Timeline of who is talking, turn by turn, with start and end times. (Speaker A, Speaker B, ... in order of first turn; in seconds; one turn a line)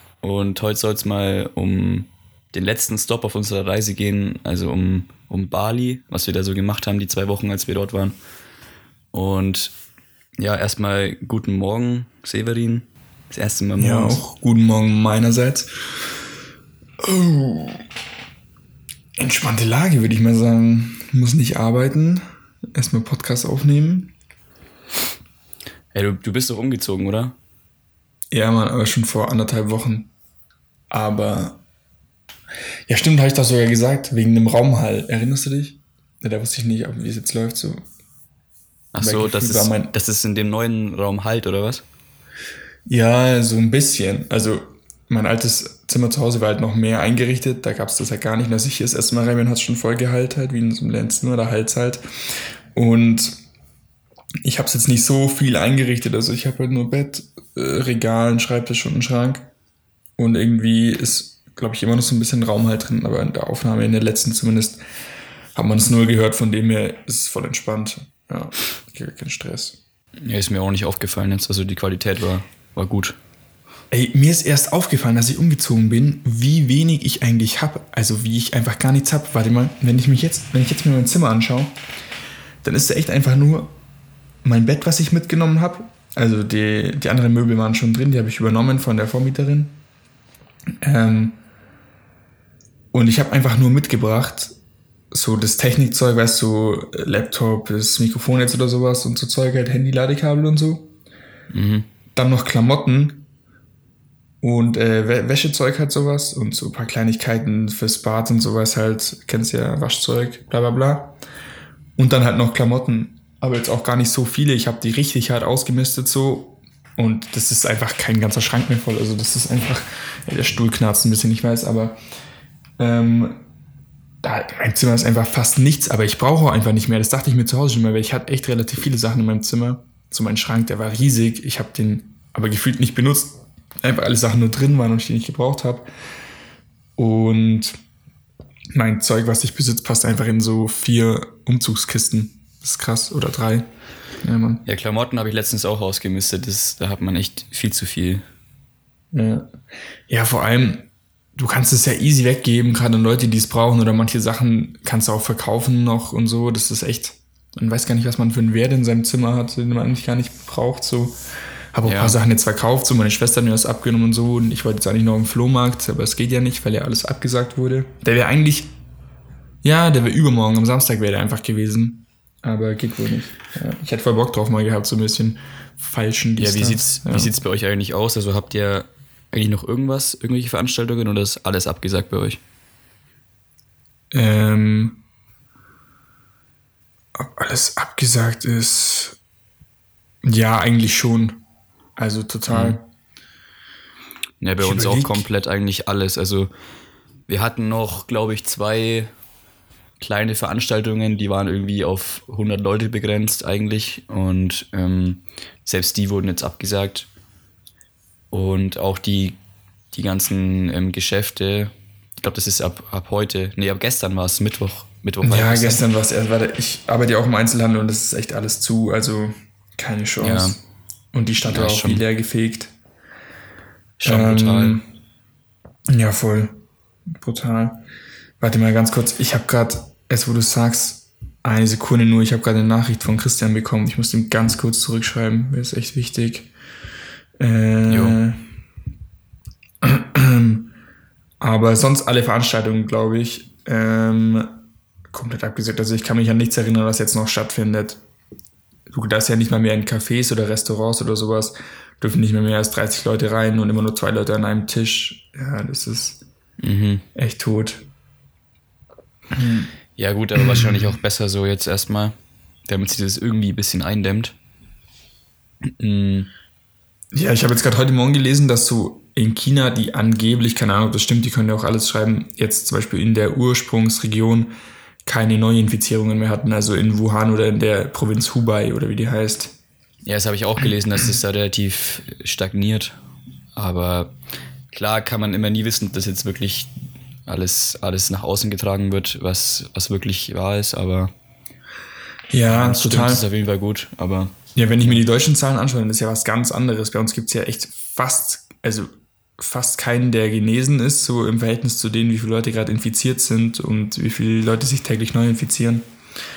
Speaker A: 0.2-8.2
Speaker A: 9.1-9.7
Speaker A: 10.4-14.2
Speaker B: 13.8-15.7
Speaker B: 17.0-17.8
Speaker B: 19.2-24.1
Speaker A: 25.9-27.3
Speaker B: 28.3-30.1
Speaker B: 30.9-31.6
Speaker B: 32.9-37.8
Speaker A: 38.9-41.8
Speaker B: 39.0-39.9
Speaker B: 42.9-52.0
Speaker B: 52.7-53.4
Speaker B: 54.4-59.5
Speaker B: 60.2-64.8
Speaker B: 65.5-69.8
Speaker A: 70.2-73.2
Speaker B: 73.9-81.7
Speaker B: 82.6-83.7
Speaker B: 84.4-89.8
Speaker B: 90.8-91.4
Speaker B: 92.9-94.5
Speaker B: 95.1-100.9
Speaker A: 101.5-101.9
Speaker B: 102.2-103.2
Speaker B: 104.4-111.2
Speaker B: 112.0-122.0
Speaker B: 122.8-123.4
Speaker B: 124.2-135.9
Speaker B: 137.0-137.7
Speaker B: 138.7-143.7
Speaker B: 144.2-144.6
Speaker A: 144.6-148.2
Speaker B: 149.1-149.5
Speaker B: 150.1-161.2
Speaker B: 161.7-168.7
Speaker A: 161.8-162.2
Speaker B: 169.6-177.3
Speaker A: 176.4-182.4
Speaker B: 184.1-185.0
Speaker B: 187.2-189.2
Speaker B: 190.2-191.4
Speaker B: 192.0-192.8
Speaker A: 192.5-192.8
Speaker A: 194.4-196.5
Speaker B: 194.6-195.2
Speaker A: 197.3-199.1
Speaker A: 200.0-207.1
Speaker A: 208.3-209.4
Speaker A: 209.9-215.8
Speaker B: 215.2-220.6
Speaker A: 220.2-220.6
Speaker B: 221.1-222.7
Speaker A: 221.5-222.0
Speaker A: 224.0-224.8
Speaker B: 224.0-224.9
Speaker B: 225.9-226.6
Speaker B: 227.1-227.8
Speaker B: 228.4-236.5
Speaker B: 237.4-238.4
Speaker A: 237.9-238.2
Speaker B: 239.8-240.7
Speaker B: 241.4-244.6
Speaker B: 245.1-248.0
Speaker B: 248.9-256.2
Speaker A: 256.6-257.0
Speaker B: 257.1-257.9
Speaker B: 259.3-259.7
Speaker A: 259.9-262.1
Speaker B: 260.4-260.9
Speaker A: 262.7-264.3
Speaker A: 265.8-266.3
Speaker B: 267.1-279.5
Speaker A: 280.0-283.0
Speaker A: 283.6-284.1
Speaker A: 284.7-286.7
Speaker A: 287.3-291.1
Speaker B: 292.3-293.2
Speaker A: 292.5-295.0
Speaker B: 294.5-305.9